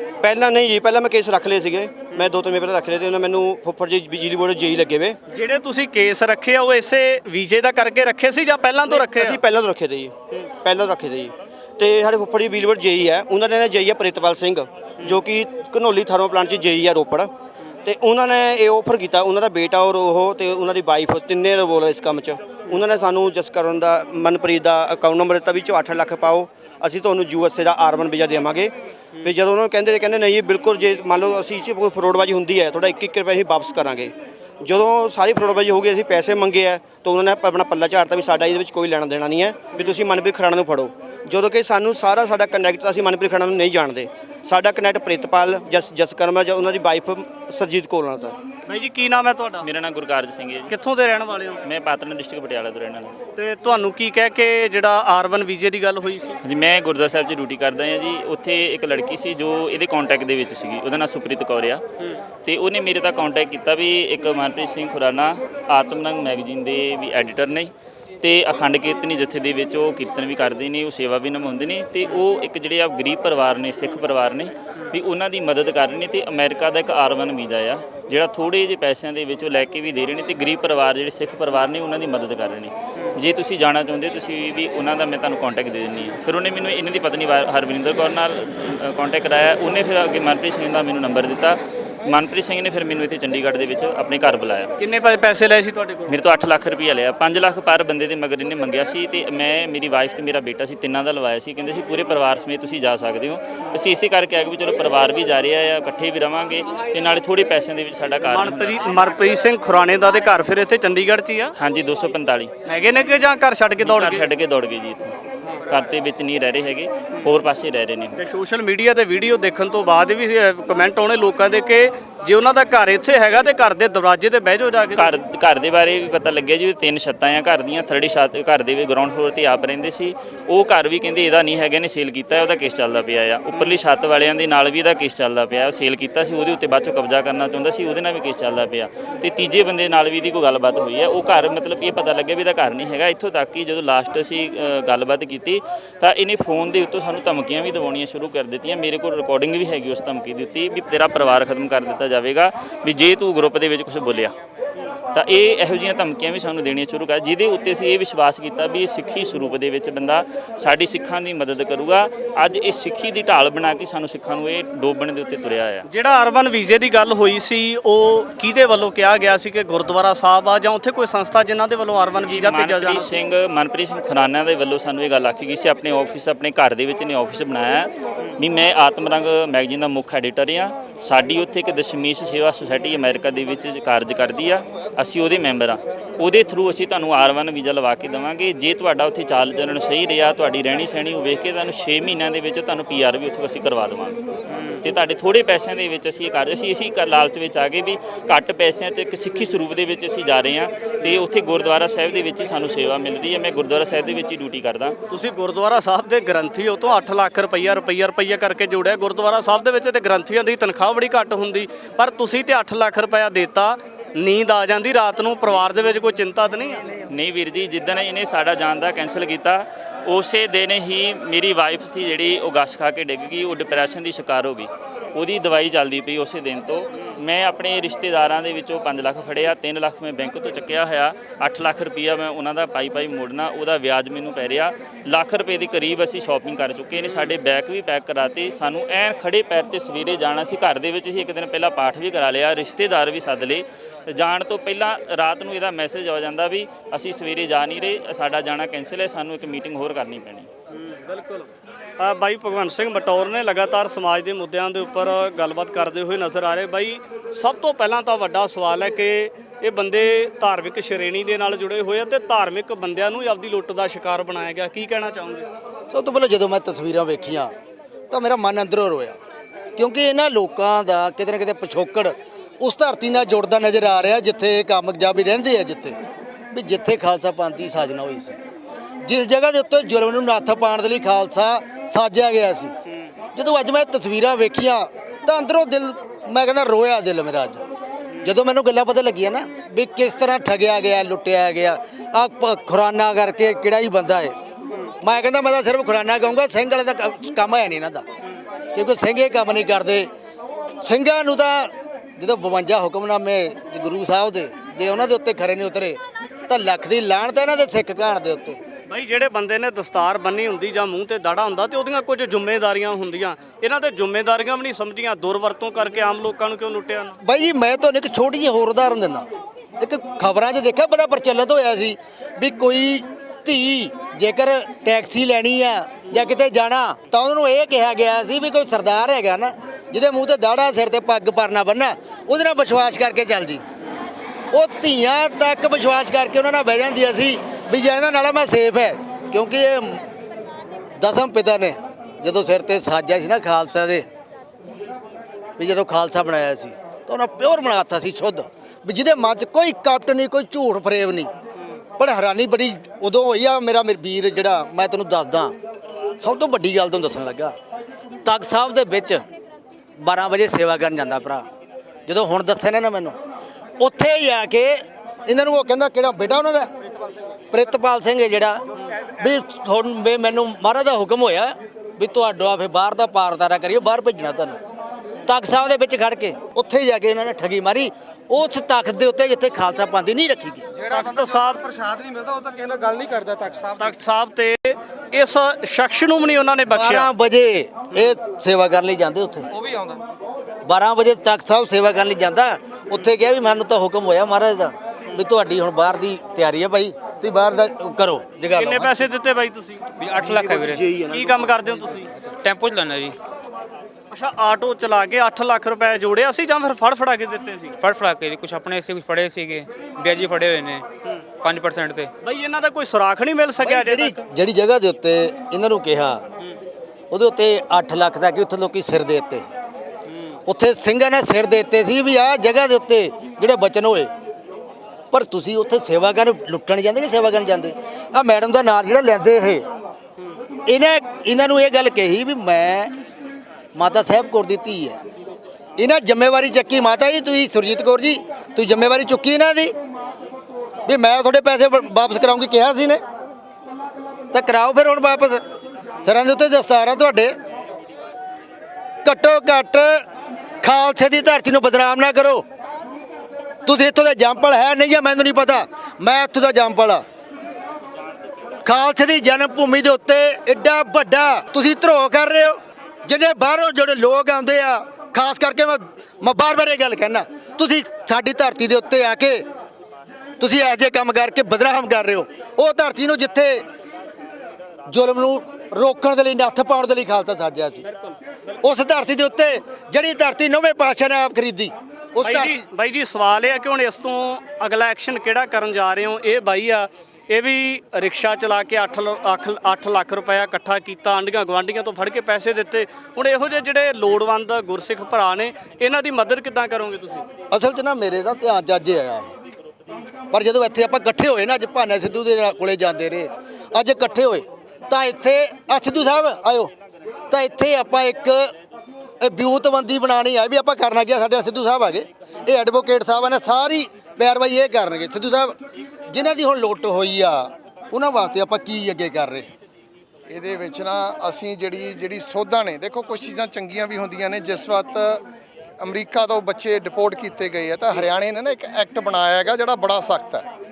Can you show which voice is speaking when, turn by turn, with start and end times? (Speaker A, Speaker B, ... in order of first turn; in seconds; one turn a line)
Speaker A: 0.3-5.1
Speaker B: 5.3-9.4
Speaker A: 9.2-10.1
Speaker A: 10.6-17.3
Speaker A: 17.9-28.7
Speaker A: 29.2-34.1
Speaker A: 34.6-48.3
Speaker B: 48.7-49.6
Speaker C: 49.6-50.7
Speaker B: 50.7-51.6
Speaker C: 51.6-53.1
Speaker B: 53.4-56.4
Speaker C: 56.4-61.8
Speaker C: 62.4-94.7
Speaker B: 94.8-96.2
Speaker C: 96.1-108.8
Speaker B: 108.2-111.5
Speaker C: 111.6-112.5
Speaker B: 112.7-114.3
Speaker C: 113.8-118.2
Speaker B: 118.2-125.2
Speaker C: 125.0-154.3
Speaker C: 155.1-165.8
Speaker B: 165.9-173.1
Speaker C: 172.3-194.2
Speaker D: 194.5-194.8
Speaker C: 194.8-204.9
Speaker B: 205.1-216.9
Speaker C: 217.1-250.5
Speaker B: 250.7-265.5
Speaker E: 265.9-267.5
Speaker E: 268.1-269.2
Speaker E: 269.8-275.9
Speaker E: 276.5-278.4
Speaker E: 279.0-282.7
Speaker E: 283.3-287.6
Speaker E: 288.2-294.3
Speaker E: 295.0-298.0
Speaker E: 298.7-300.1
Speaker E: 300.8-306.0
Speaker E: 306.5-308.6
Speaker B: 308.9-317.1
Speaker E: 317.2-319.2
Speaker E: 319.8-333.6
Speaker E: 334.5-340.0
Speaker E: 341.0-344.1
Speaker E: 345.6-351.3
Speaker E: 352.0-355.5
Speaker E: 356.2-357.5
Speaker E: 358.2-359.2
Speaker E: 360.0-361.4
Speaker E: 362.1-363.1
Speaker E: 363.8-366.7
Speaker E: 367.5-374.6
Speaker E: 375.2-380.7
Speaker F: 380.8-384.0
Speaker B: 380.9-381.6
Speaker B: 383.8-387.1
Speaker E: 386.7-389.5
Speaker F: 389.5-390.0
Speaker E: 390.6-399.1
Speaker B: 398.5-399.8
Speaker D: 400.0-400.9
Speaker E: 400.2-401.7
Speaker B: 401.1-402.1
Speaker D: 402.3-403.1
Speaker B: 404.1-407.7
Speaker D: 407.8-410.9
Speaker D: 411.4-412.1
Speaker B: 412.2-414.1
Speaker E: 413.6-416.2
Speaker E: 417.1-419.5
Speaker E: 420.4-424.1
Speaker E: 425.1-429.6
Speaker E: 430.7-432.9
Speaker E: 433.8-435.0
Speaker E: 435.8-439.7
Speaker E: 440.9-443.0
Speaker E: 444.3-445.4
Speaker E: 446.0-447.3
Speaker E: 449.0-450.0
Speaker E: 450.6-452.4
Speaker E: 453.6-457.0
Speaker E: 458.6-469.4
Speaker E: 470.4-473.6
Speaker E: 474.9-477.8
Speaker B: 477.9-478.2
Speaker E: 478.6-482.6
Speaker B: 482.2-497.2
Speaker E: 497.5-499.3
Speaker E: 500.3-506.7
Speaker E: 507.3-508.5
Speaker E: 509.2-515.5
Speaker E: 516.1-519.5
Speaker G: 520.3-525.2
Speaker G: 525.8-530.5